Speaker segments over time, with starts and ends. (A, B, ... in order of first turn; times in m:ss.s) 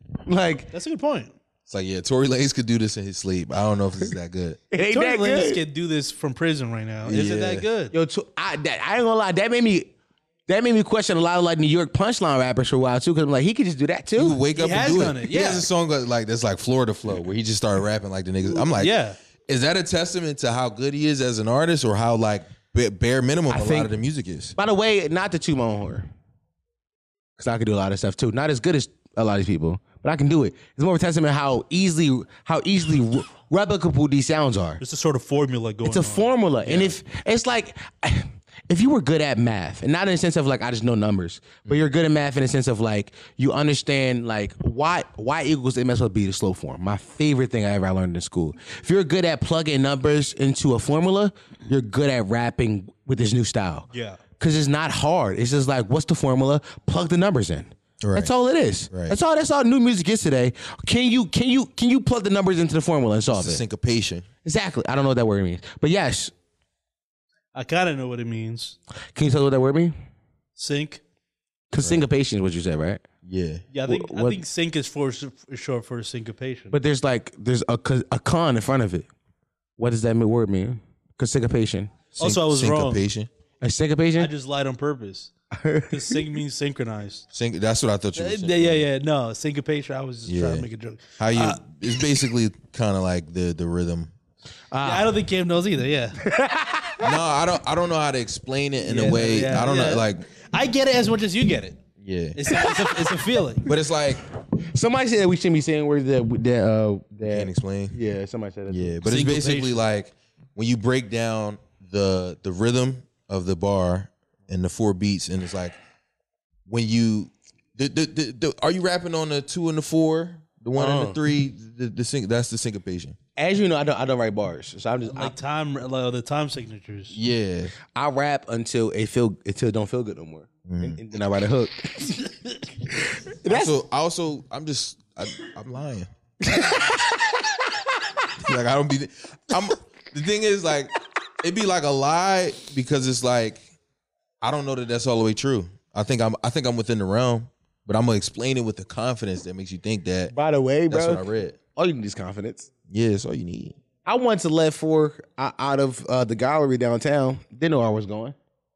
0:00.2-0:00.7 A
0:00.7-0:01.4 B
0:01.7-0:04.6 C
0:04.7-0:05.6 A
0:04.8-0:07.9 B
0:07.0-0:07.7 C
0:07.9-0:09.9 A
0:10.5-0:14.4 A
0:14.2-0:19.0 C
0:14.5-0:15.7 B
0:18.6-0:19.2 B
0:19.5-0:24.6 C
0:23.5-0:23.9 A
0:24.6-0:26.1 A
0:27.4-0:34.8 A
0:34.8-0:37.0 B
0:35.8-0:53.9 A
0:53.9-0:54.2 B
0:54.4-1:03.6 A
0:58.0-0:58.3 C
0:58.9-0:59.2 C
1:03.3-1:04.3 C
1:04.4-1:06.3 A
1:07.5-1:08.8 B
1:09.2-1:09.9 A
1:10.6-1:11.0 B
1:11.7-1:13.0 A
1:11.8-1:12.0 C
1:13.2-1:13.6 C
1:13.7-1:16.8 B
1:13.9-1:14.4 A
1:16.7-1:19.1 A
1:19.8-1:22.0 A
1:22.2-1:23.3 C
1:22.2-1:23.0 B
1:23.6-1:24.3 A
1:24.2-1:25.3 B
1:25.5-1:26.2 A
1:25.9-1:27.3 B
1:27.3-1:28.8 C
1:28.2-1:31.6 B
1:30.3-1:30.7 C
1:31.2-1:34.1 C
1:34.7-1:35.2 A
1:34.8-1:36.2 B
1:36.2-1:37.2 A
1:37.0-1:40.3 C
1:38.8-1:41.8 B
1:42.0-1:42.4 C
1:42.4-1:43.7 B
1:43.6-1:44.2 C
1:44.6-1:49.0 A
1:47.3-1:48.0 C
1:48.7-1:55.8 C
1:49.0-1:49.8 B
1:56.7-2:03.2 C
2:00.8-2:01.2 A
2:03.4-2:05.4 A
2:05.1-2:07.2 B
2:07.1-2:07.8 C
2:07.9-2:13.8 A
2:10.7-2:11.0 C
2:13.5-2:16.1 C
2:16.4-2:18.1 A
2:18.4-2:23.6 C
2:24.4-2:30.3 C
2:30.3-2:31.2 A
2:30.9-2:31.6 C
2:31.8-2:32.7 A
2:32.9-2:33.8 C
2:34.0-2:38.4 A